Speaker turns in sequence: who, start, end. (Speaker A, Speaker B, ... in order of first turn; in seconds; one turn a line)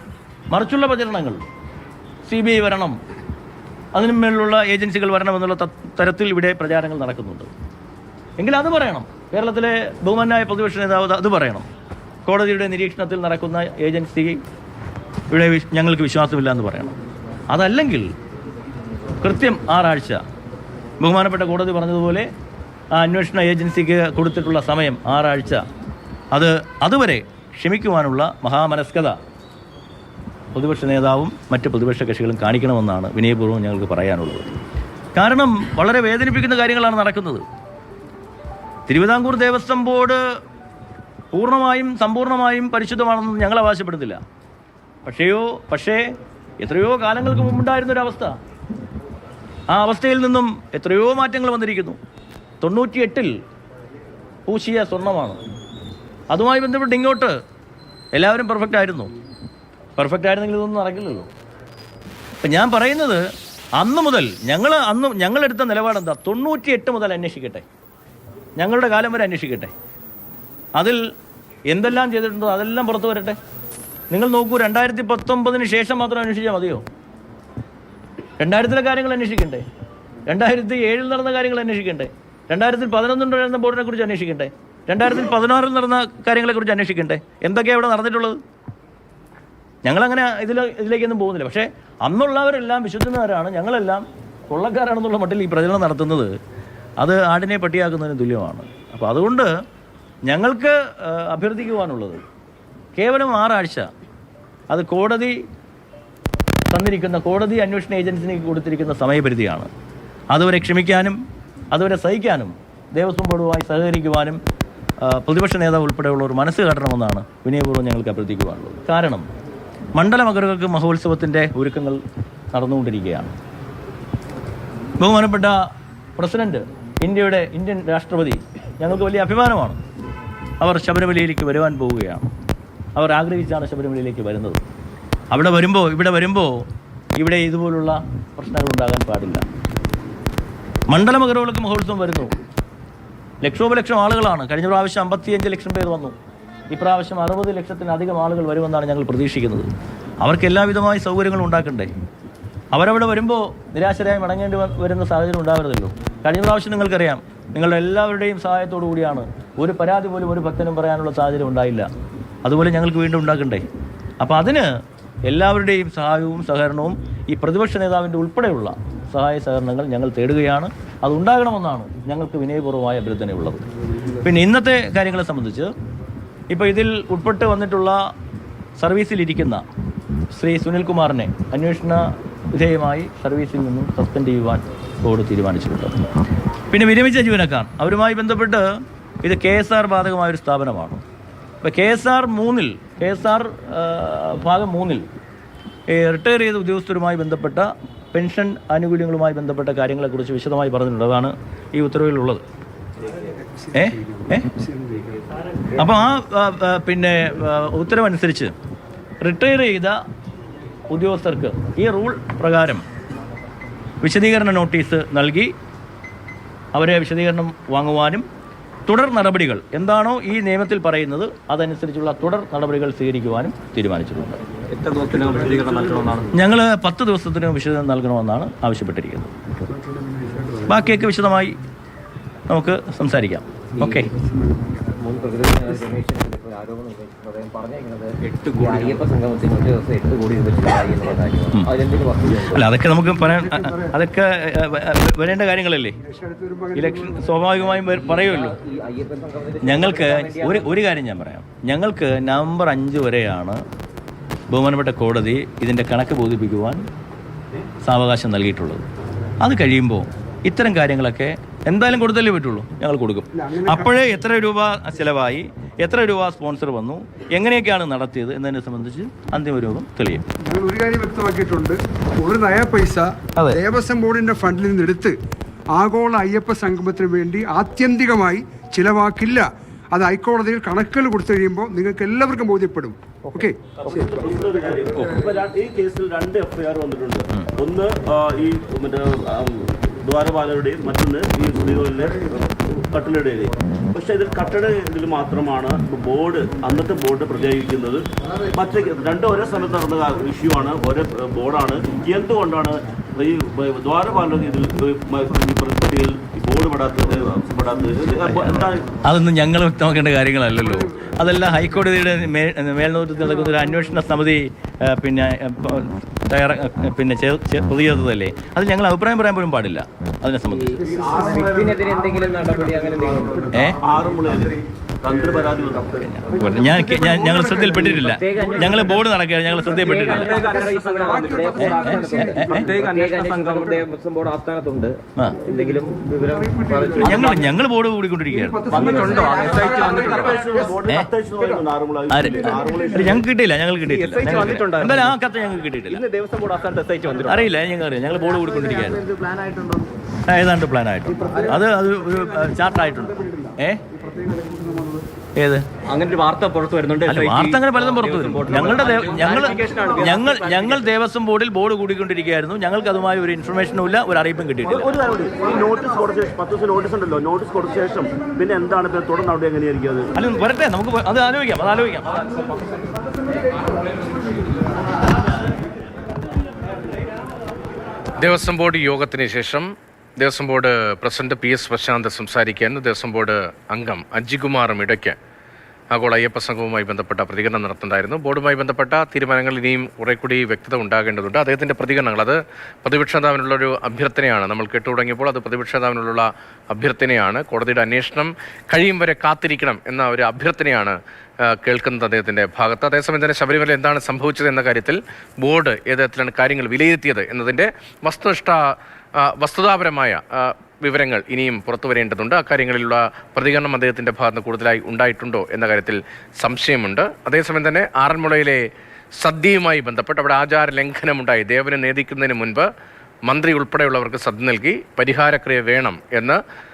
Speaker A: 0.5-1.4
Speaker A: 2.2-3.0
Speaker A: 3.9-7.5
Speaker A: 8.4-11.7
Speaker A: 12.2-14.4
Speaker A: 15.3-16.9
Speaker A: 17.5-18.1
Speaker A: 19.2-20.2
Speaker A: 21.0-22.3
Speaker A: 22.9-25.6
Speaker A: 26.3-29.2
Speaker A: 30.5-34.5
Speaker A: 35.1-37.4
Speaker A: 38.9-40.2
Speaker A: 41.3-44.2
Speaker A: 45.0-46.0
Speaker A: 46.6-48.4
Speaker A: 49.7-52.0
Speaker A: 52.6-53.4
Speaker A: 54.5-55.4
Speaker A: 56.3-57.4
Speaker A: 58.1-59.1
Speaker A: 60.0-61.3
Speaker A: 62.4-63.2
Speaker A: 63.8-67.7
Speaker A: 68.6-69.7
Speaker A: 70.8-71.0
Speaker A: 71.7-73.4
Speaker A: 74.1-76.8
Speaker A: 78.4-79.6
Speaker A: 80.3-88.4
Speaker A: 89.8-96.3
Speaker A: 97.0-99.5
Speaker A: 100.3-102.2
Speaker A: 103.0-103.9
Speaker A: 104.7-105.4
Speaker A: 106.7-109.7
Speaker A: 110.3-111.2
Speaker A: 111.7-114.4
Speaker A: 115.0-119.3
Speaker A: 120.0-122.0
Speaker A: 122.5-123.3
Speaker A: 125.0-125.7
Speaker A: 126.2-129.8
Speaker A: 130.6-132.3
Speaker A: 132.9-134.6
Speaker A: 135.3-136.6
Speaker A: 137.2-139.4
Speaker A: 140.9-142.3
Speaker A: 143.4-146.1
Speaker A: 146.7-151.9
Speaker A: 152.7-161.9
Speaker A: 162.4-163.7
Speaker A: 164.2-164.7
Speaker A: 165.2-175.7
Speaker A: 176.5-178.0
Speaker A: 178.8-179.6
Speaker A: 180.3-186.0
Speaker A: 186.7-191.0
Speaker A: 191.6-195.1
Speaker A: 195.9-202.4
Speaker B: 203.4-205.2
Speaker A: 203.7-204.5
Speaker A: 205.7-208.5
Speaker A: 209.2-210.0
Speaker A: 210.9-212.8
Speaker A: 214.0-215.5
Speaker A: 216.7-218.2
Speaker A: 218.9-224.4
Speaker C: 224.8-226.3
Speaker D: 224.8-226.2
Speaker A: 226.3-229.3
Speaker B: 229.7-230.7
Speaker A: 230.6-231.6
Speaker A: 232.5-234.1
Speaker B: 234.1-234.9
Speaker C: 235.0-242.7
Speaker D: 238.3-238.7
Speaker A: 242.4-246.0
Speaker B: 243.1-243.9
Speaker B: 246.0-247.4
Speaker A: 246.7-248.6
Speaker C: 247.7-250.7
Speaker A: 249.6-253.6
Speaker A: 254.5-256.8
Speaker A: 257.8-258.8
Speaker A: 259.4-270.2
Speaker B: 263.4-263.9
Speaker B: 270.4-275.1
Speaker B: 275.7-284.2
Speaker D: 283.8-308.9
Speaker A: 309.0-320.8
Speaker C: 320.8-323.7
Speaker B: 321.0-321.5
Speaker A: 323.5-323.8
Speaker D: 323.8-326.1
Speaker A: 326.0-330.4
Speaker B: 326.5-327.9
Speaker C: 327.7-329.0
Speaker C: 329.7-337.5
Speaker D: 329.8-331.5
Speaker B: 329.9-332.9
Speaker A: 331.5-332.6
Speaker D: 332.4-333.8
Speaker B: 336.1-337.5
Speaker A: 337.0-338.8
Speaker B: 338.3-340.4
Speaker D: 338.7-343.2
Speaker C: 338.7-340.4
Speaker A: 342.1-346.0
Speaker C: 343.9-345.1
Speaker D: 344.3-344.6
Speaker C: 345.9-347.5
Speaker A: 347.2-349.1
Speaker C: 348.9-349.8
Speaker A: 350.3-353.8
Speaker C: 351.2-351.5
Speaker B: 352.1-355.1
Speaker A: 355.4-355.6
Speaker C: 355.9-360.8
Speaker A: 357.0-364.9
Speaker D: 358.0-360.2
Speaker D: 364.6-370.1
Speaker A: 370.1-372.2
Speaker E: 378.2-385.1
Speaker E: 385.9-408.6
Speaker E: 409.2-418.6
Speaker E: 419.2-422.7
Speaker E: 423.3-426.4